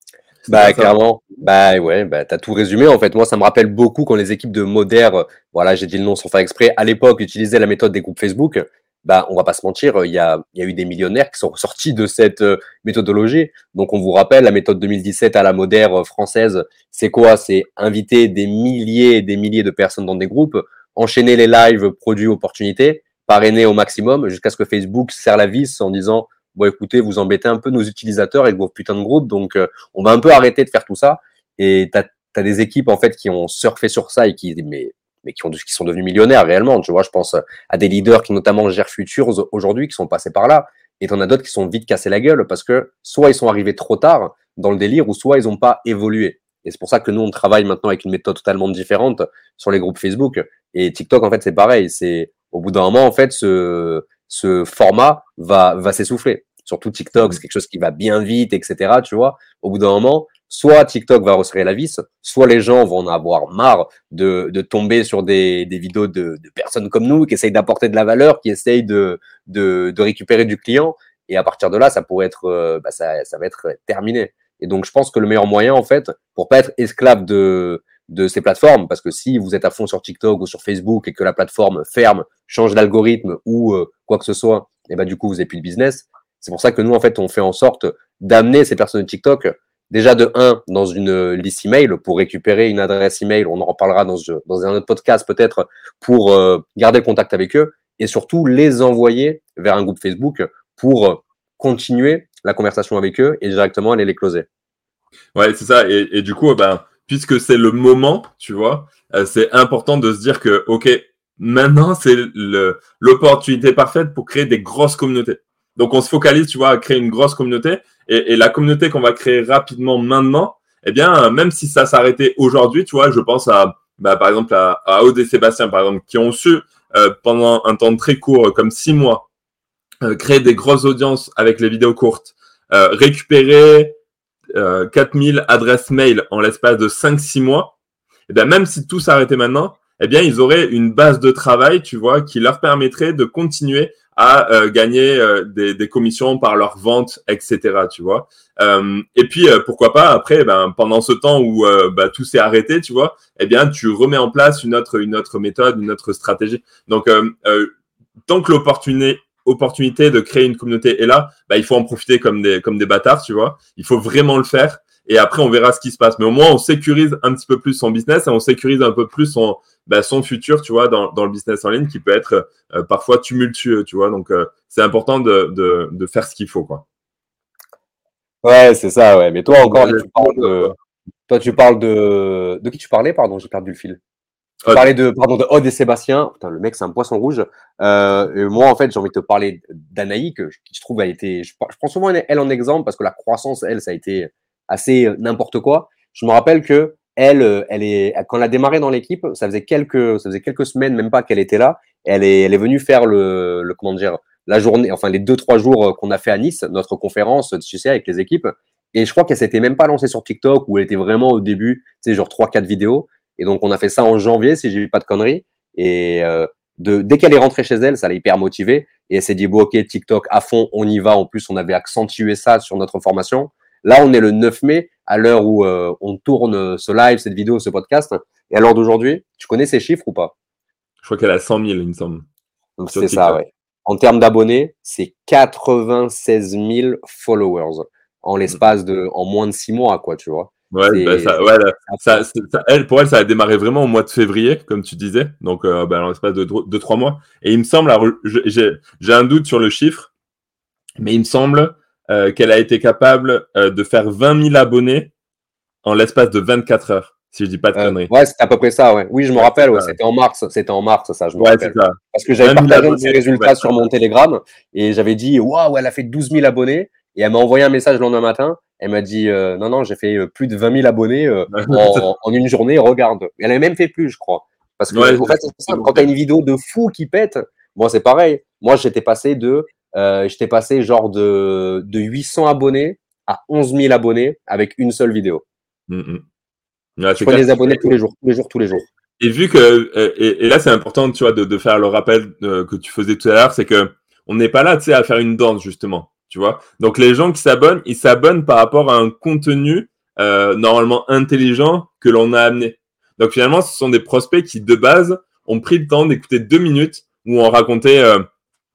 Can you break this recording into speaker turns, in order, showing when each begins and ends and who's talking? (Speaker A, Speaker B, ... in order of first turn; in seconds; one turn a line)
Speaker A: 0.4-0.9
Speaker B: 0.5-104.5
Speaker A: 105.3-129.3
Speaker A: 130.0-133.9
Speaker A: 134.5-137.7
Speaker A: 138.3-157.7
Speaker A: 158.3-176.8
Speaker B: 178.4-180.7
Speaker A: 179.5-180.7
Speaker B: 181.3-184.0
Speaker B: 184.7-230.3
Speaker A: 231.0-232.2
Speaker B: 232.8-242.2
Speaker A: 232.9-233.4
Speaker A: 240.7-250.1
Speaker A: 251.0-255.1
Speaker A: 255.8-258.1
Speaker B: 257.7-285.4
Speaker A: 259.4-259.9
Speaker A: 261.4-263.7
Speaker A: 271.5-272.0
Speaker A: 274.9-276.1
Speaker A: 285.9-286.2
Speaker A: 287.0-287.9
Speaker B: 287.2-288.9
Speaker A: 289.2-308.2